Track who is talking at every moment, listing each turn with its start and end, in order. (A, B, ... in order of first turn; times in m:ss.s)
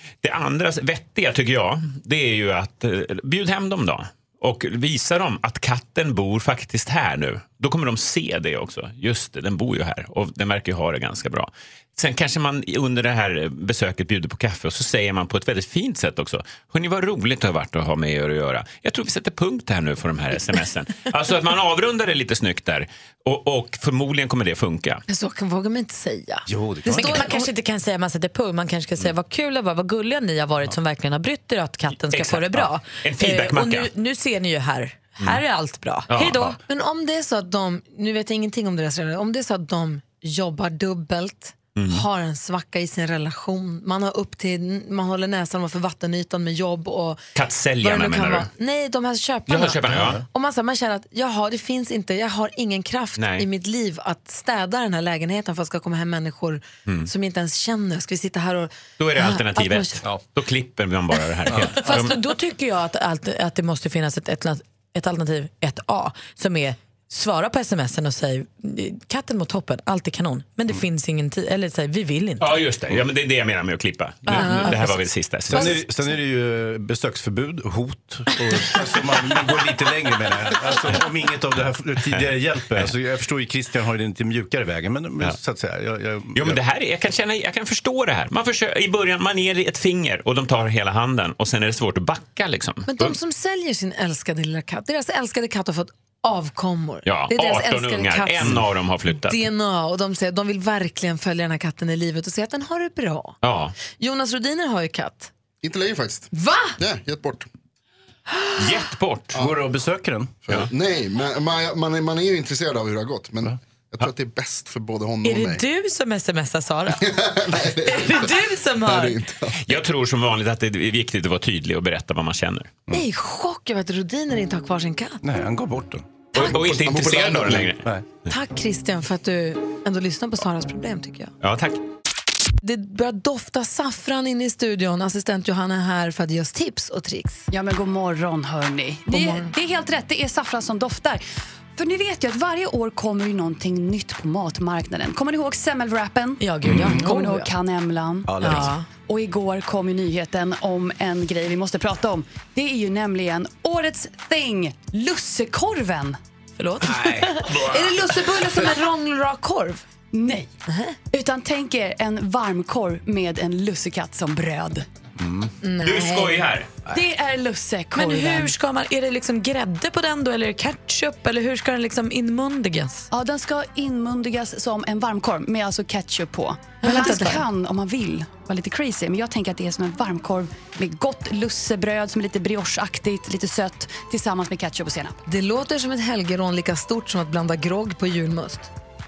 0:00.2-0:25.0 A
0:25.1-0:27.5 B
0:26.5-0:27.2 C
0:27.0-0:36.6 D
0:32.1-0:33.9 A
0:36.1-0:36.5 A
0:36.7-0:47.2 B
0:41.7-0:42.0 A
0:47.4-0:48.5 A
0:47.8-1:00.0 B
0:49.5-0:50.2 A
0:49.9-0:50.2 C
0:53.2-0:53.5 A
0:59.0-1:02.2 A
1:01.5-1:01.8 C
1:01.8-1:12.6 D
1:12.4-1:15.7 A
1:14.3-1:15.0 D
1:14.3-1:15.0 B
1:15.5-1:26.6 C
1:15.5-1:15.8 B
1:22.1-1:22.8 A
1:26.3-1:33.1 A
1:32.9-1:45.3 B
1:37.0-1:39.4 A
1:43.4-1:43.7 A
1:45.6-1:47.5 E
1:46.3-1:46.8 B
1:48.4-1:48.8 B
1:48.6-1:49.4 A
1:49.3-1:50.6 C
1:50.5-1:55.6 E
1:55.2-1:59.2 D
1:57.0-1:59.7 E
1:59.6-2:02.8 A
2:02.9-2:05.2 B
2:05.2-2:06.8 C
2:06.3-2:07.9 A
2:06.4-2:07.7 E
2:08.3-2:11.3 B
2:11.4-2:11.8 A
2:12.6-2:17.4 B
2:17.5-2:21.2 F
2:19.1-2:19.5 B
2:21.8-2:36.2 F
2:26.4-2:27.5 D
2:26.6-2:27.0 C
2:28.3-2:28.7 C
2:28.4-2:28.9 D
2:36.6-2:37.5 D
2:36.8-2:37.4 C
2:37.3-2:39.8 B
2:40.1-2:40.5 F
2:40.7-2:41.0 B
2:41.1-2:44.8 F
2:45.2-2:45.5 C
2:45.6-2:46.5 B
2:45.8-2:46.7 A
2:46.8-2:48.5 F
2:47.9-2:53.1 D
2:53.1-3:05.2 F
2:56.8-2:57.4 D
2:56.8-2:57.4 B
3:05.3-3:08.7 B